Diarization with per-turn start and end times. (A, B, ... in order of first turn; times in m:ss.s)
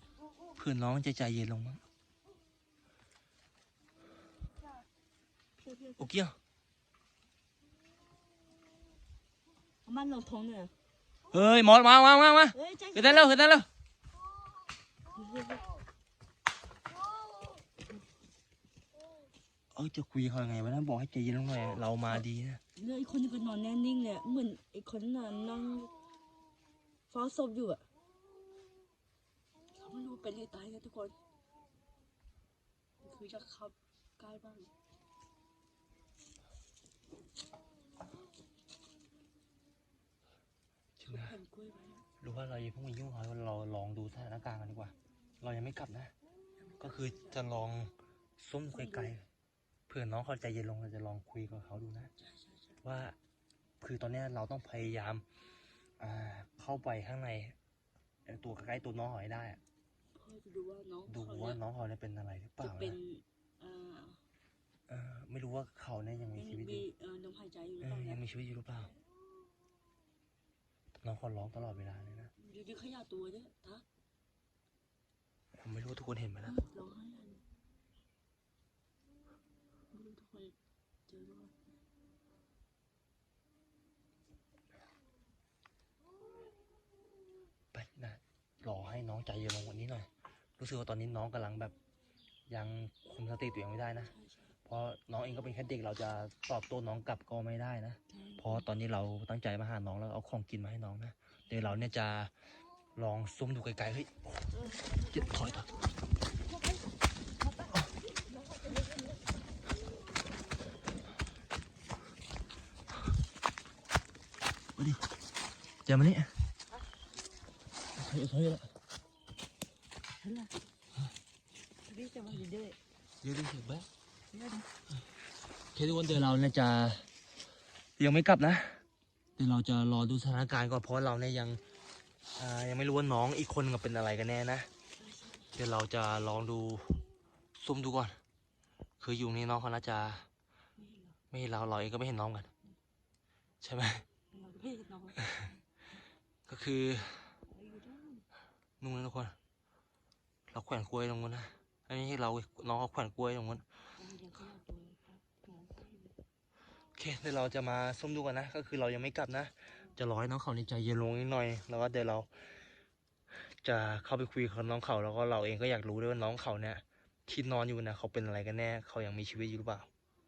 0:00.6-0:01.8 A
0:05.6-0:06.1 B
0:06.0-0:06.4 A
0:09.8-0:10.7 B
0:11.3-0:13.7 A
0:12.5-0:13.3 B
0:15.1-0:15.6 B
0:19.7-0:22.6 A
0:22.7-0:25.9 B
0:27.1-0:27.8 B
0:29.7-0:31.2 B
0:33.0-0:34.7 B
0:41.0-0:41.4 A
0:41.1-0:42.0 B
0:42.2-0:46.1 A
0:46.6-0:47.4 B
0:46.8-0:49.2 A
0:48.7-0:49.1 B
0:49.9-0:52.1 A
0:52.2-0:52.8 B
0:52.8-0:53.2 A
0:53.8-0:55.2 A
0:56.0-0:57.6 A
0:58.2-0:59.6 A
1:00.1-1:01.6 B
1:01.1-1:03.0 A
1:02.6-1:04.2 B
1:04.9-1:06.8 A
1:06.4-1:08.2 B
1:07.8-1:08.9 A
1:11.0-1:12.3 A
1:12.4-1:13.8 B
1:15.6-1:16.6 A
1:16.4-1:17.4 B
1:19.9-1:20.6 B
1:21.1-1:21.5 B
1:27.7-1:31.7 A
1:32.5-1:34.1 A
1:34.1-1:34.5 B
1:34.6-1:42.3 A
1:38.1-1:38.6 B
1:41.5-1:41.9 B
1:43.0-1:44.5 A
1:44.5-1:45.8 B
1:45.1-1:45.6 A
1:46.4-1:46.9 B
1:47.4-1:49.2 B
1:54.8-1:55.0 A
1:55.8-1:56.3 A
1:57.9-1:58.7 A
2:00.2-2:00.5 B
2:01.8-2:02.8 B
2:03.2-2:03.9 A
2:04.3-2:04.7 B
2:05.7-2:07.1 A
2:08.0-2:08.8 A
2:09.4-2:11.6 A
2:12.4-2:14.7 A
2:15.0-2:15.5 B
2:15.5-2:17.0 A
2:17.6-2:18.2 A
2:19.0-2:20.2 A
2:20.8-2:21.2 B
2:21.3-2:22.5 A
2:23.6-2:24.0 A
2:24.3-2:25.5 B
2:26.5-2:27.4 A
2:27.4-2:28.2 B
2:28.8-2:29.3 A
2:30.5-2:33.6 A
2:34.0-2:36.1 B
2:36.9-2:42.6 A
2:43.3-2:49.9 A